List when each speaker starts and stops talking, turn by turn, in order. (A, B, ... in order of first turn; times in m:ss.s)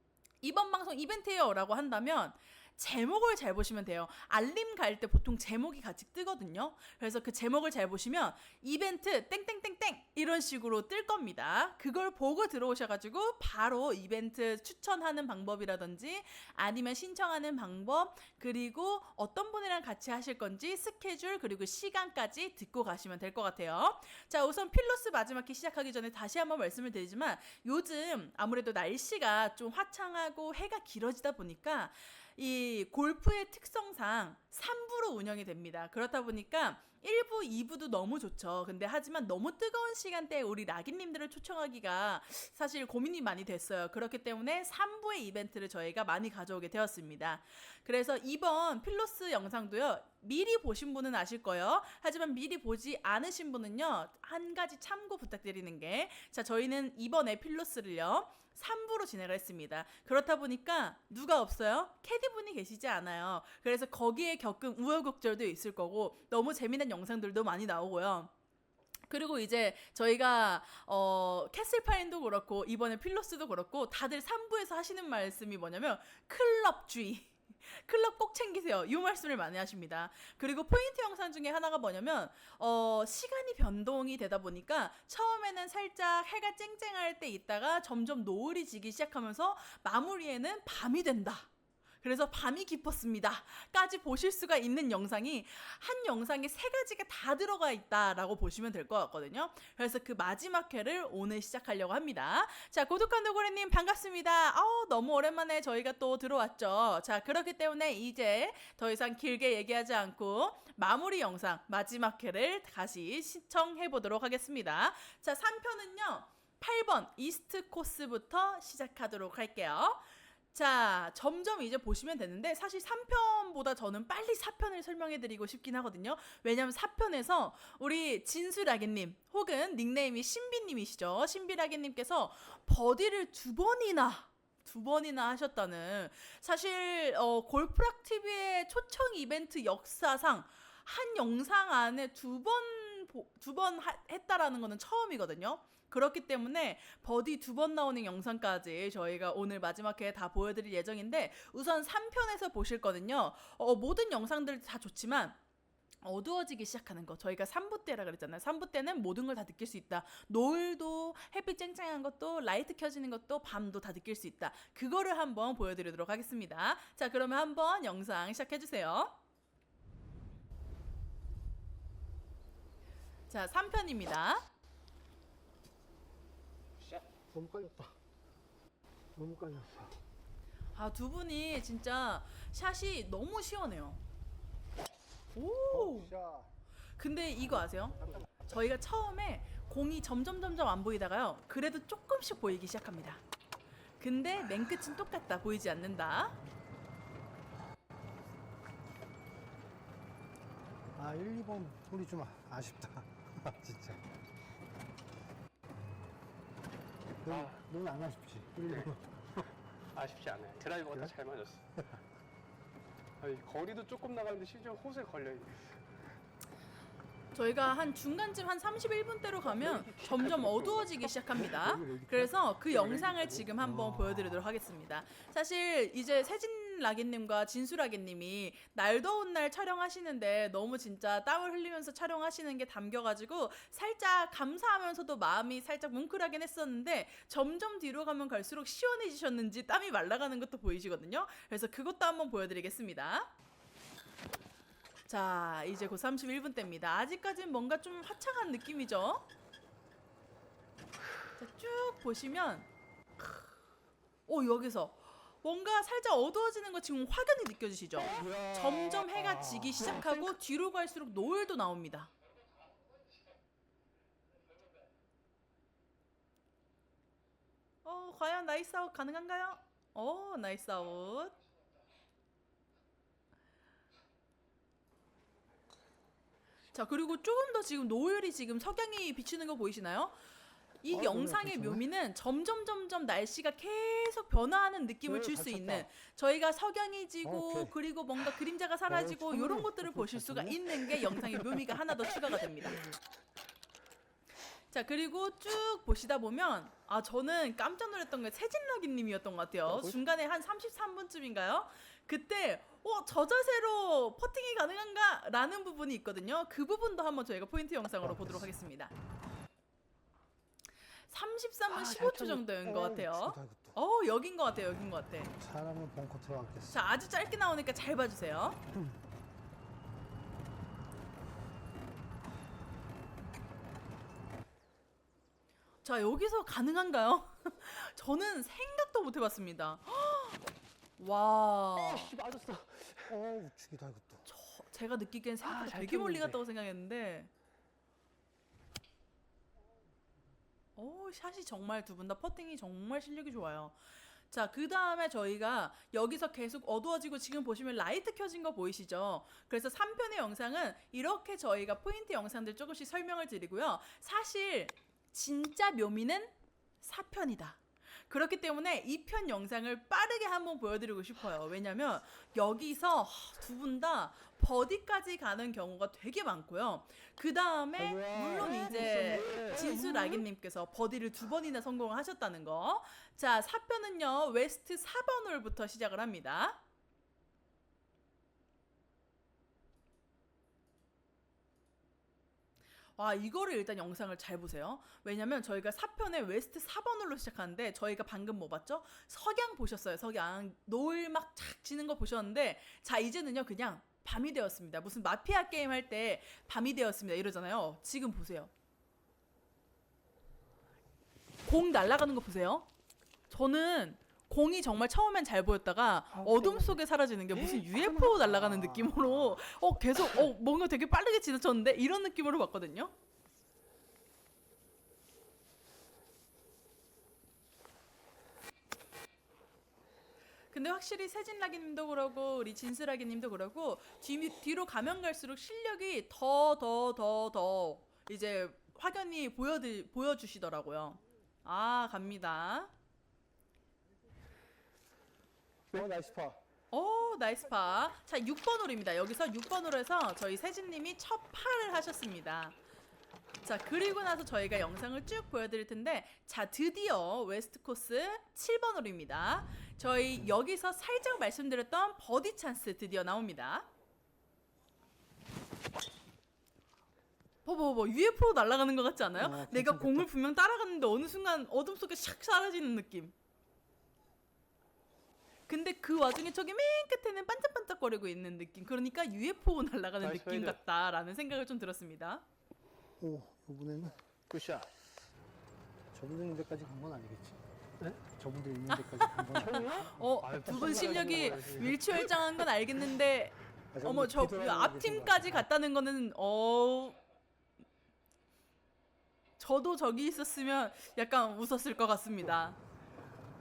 0:00.4-1:08.3 A
1:09.1-1:31.5 A
1:32.0-2:35.4 A
2:36.0-2:49.2 A
2:53.3-2:54.5 A
2:57.3-2:58.0 B
2:59.1-3:00.0 B
3:00.7-3:04.0 A
3:05.3-3:06.1 A
3:05.7-3:06.5 B
3:07.0-3:13.2 A
3:14.0-3:16.4 A
3:21.0-3:24.0 B
3:27.2-3:29.4 B
3:27.2-3:27.6 C
3:28.6-3:28.9 C
3:29.9-3:31.8 C
3:33.2-3:35.8 C
3:37.3-4:03.3 A
3:39.4-3:41.4 C
3:41.4-3:44.5 B
3:42.8-3:43.5 C
4:05.1-4:09.2 A
4:11.4-4:12.7 A
4:14.3-4:22.1 A
4:18.0-4:20.3 B
4:27.8-4:31.3 A
4:36.7-4:40.2 A
4:40.8-4:52.8 A
4:40.9-4:41.8 B
4:45.1-4:45.9 B
4:47.2-4:47.7 B
4:48.9-4:51.5 B
4:54.7-5:08.9 A
4:59.7-4:59.9 C
5:08.0-5:08.5 B
5:11.1-5:15.3 A
5:11.7-5:12.4 C
5:12.6-5:13.8 B
5:15.4-5:16.8 B
5:16.7-5:18.6 A
5:25.8-5:30.4 A
5:31.0-5:32.1 A
5:31.8-5:33.1 C
5:33.1-5:34.2 B
5:34.3-5:37.3 A
5:35.4-5:36.4 C
5:40.8-5:43.7 A
5:44.3-6:16.6 A
6:07.8-6:10.2 B
6:08.4-6:09.6 C
6:23.0-6:38.5 A
6:41.4-6:42.7 A
6:43.3-6:52.9 A
6:46.2-6:46.8 B
6:47.5-6:49.4 B
7:00.5-7:12.7 A
7:15.7-7:16.4 B
7:16.7-7:22.6 A
7:23.4-7:33.7 A
7:37.4-7:43.1 A
7:39.2-7:40.1 B
7:45.5-7:52.2 A
7:50.0-7:50.6 C
7:53.0-7:54.0 B
7:54.3-7:54.7 C
7:55.9-7:57.4 B
7:58.0-8:01.3 B
7:58.7-8:07.0 A
7:59.3-8:02.4 C
8:03.7-8:05.4 B
8:09.4-8:12.6 A